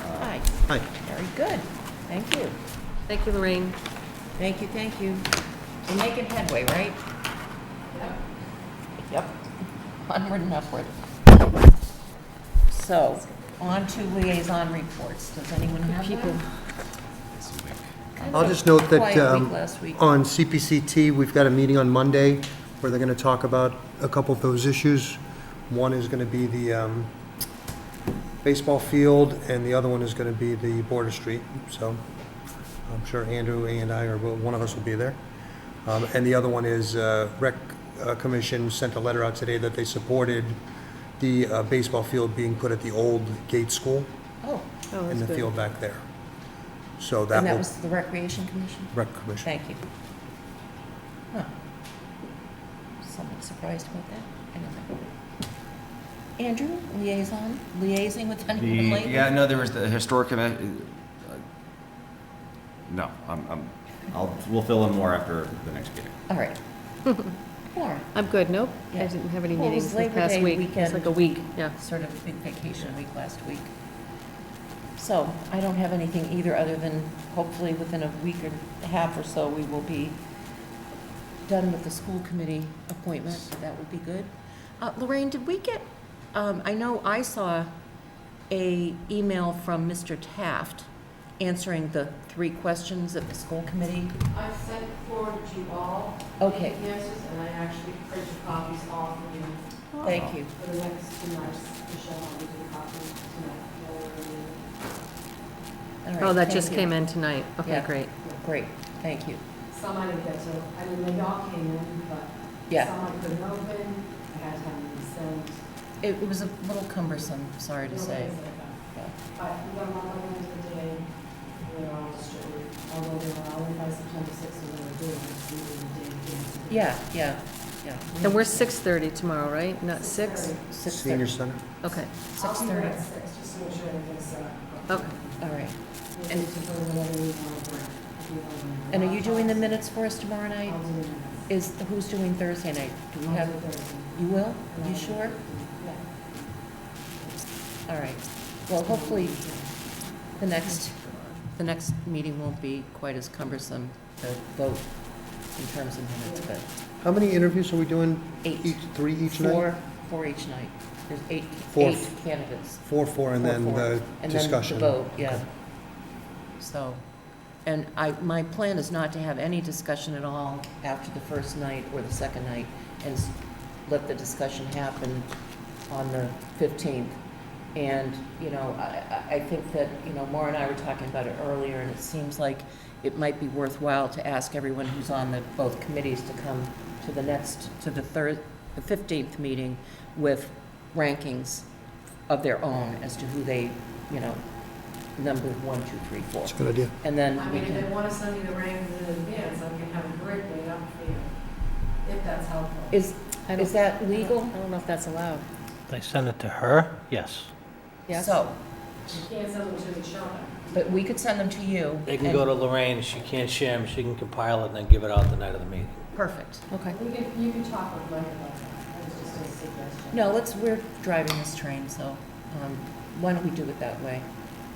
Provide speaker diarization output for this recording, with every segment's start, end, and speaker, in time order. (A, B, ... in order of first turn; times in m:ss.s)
0:00.1-0:02.6 A
0:03.1-0:03.8 B
0:04.4-0:05.3 A
0:05.8-0:07.0 A
0:07.9-0:08.2 C
0:09.0-0:09.4 A
0:10.1-0:11.6 A
0:12.7-0:16.4 A
0:15.8-0:16.4 B
0:17.3-0:17.9 D
0:18.2-0:20.0 A
0:18.3-0:27.1 E
0:28.4-0:32.0 E
0:32.9-0:35.2 E
0:35.8-0:40.6 E
0:41.2-0:44.1 E
0:44.4-0:44.7 A
0:44.9-0:45.5 B
0:45.1-0:46.0 E
0:47.0-0:47.6 E
0:47.3-0:49.8 A
0:48.9-0:49.5 E
0:53.0-0:55.0 A
0:56.4-0:59.3 A
0:58.5-1:01.4 D
1:02.9-1:06.1 D
1:06.3-1:06.6 A
1:07.7-1:08.1 A
1:08.1-1:11.7 B
1:08.9-1:13.7 A
1:15.0-1:20.2 A
1:21.4-1:27.7 A
1:28.5-1:30.9 A
1:31.4-1:34.2 A
1:34.3-1:39.6 C
1:36.4-1:36.8 A
1:40.0-1:40.5 A
1:40.5-1:44.6 C
1:46.0-1:46.9 A
1:46.2-1:48.1 B
1:47.6-1:49.4 A
1:49.7-1:55.6 C
1:56.0-1:58.4 A
1:57.9-1:58.8 C
1:59.3-2:01.0 C
2:01.6-2:06.9 C
2:06.7-2:08.7 A
2:08.2-2:10.6 B
2:10.0-2:10.6 C
2:10.7-2:11.3 A
2:10.8-2:11.6 E
2:11.8-2:12.1 B
2:12.3-2:15.5 C
2:12.4-2:13.0 A
2:14.9-2:15.1 B
2:15.4-2:16.5 A
2:16.2-2:19.8 C
2:18.9-2:20.8 A
2:20.7-2:21.4 C
2:21.5-2:23.6 A
2:23.2-2:26.5 C
2:24.1-2:26.0 A
2:27.9-2:29.4 A
2:28.9-2:29.7 C
2:30.4-2:34.9 A
2:35.5-2:36.6 A
2:37.0-2:39.6 E
2:38.4-2:42.8 A
2:41.7-2:42.2 E
2:42.8-2:45.4 E
2:43.4-2:45.5 A
2:46.6-2:47.0 A
2:47.6-2:55.3 A
2:55.9-2:57.2 A
2:57.7-3:11.7 A
3:12.3-3:14.4 A
3:15.2-3:17.9 A
3:16.4-3:16.9 E
3:17.4-3:21.3 C
3:22.0-3:22.9 C
3:22.9-3:24.6 A
3:23.5-3:25.4 B
3:25.9-3:27.5 F
3:28.1-3:28.4 B
3:28.1-3:28.6 A
3:29.1-3:30.7 C
3:30.7-3:32.5 A
3:32.0-3:36.0 F
3:36.1-3:36.6 A
3:36.7-3:37.0 B
3:36.9-3:40.2 C
3:40.1-3:44.2 A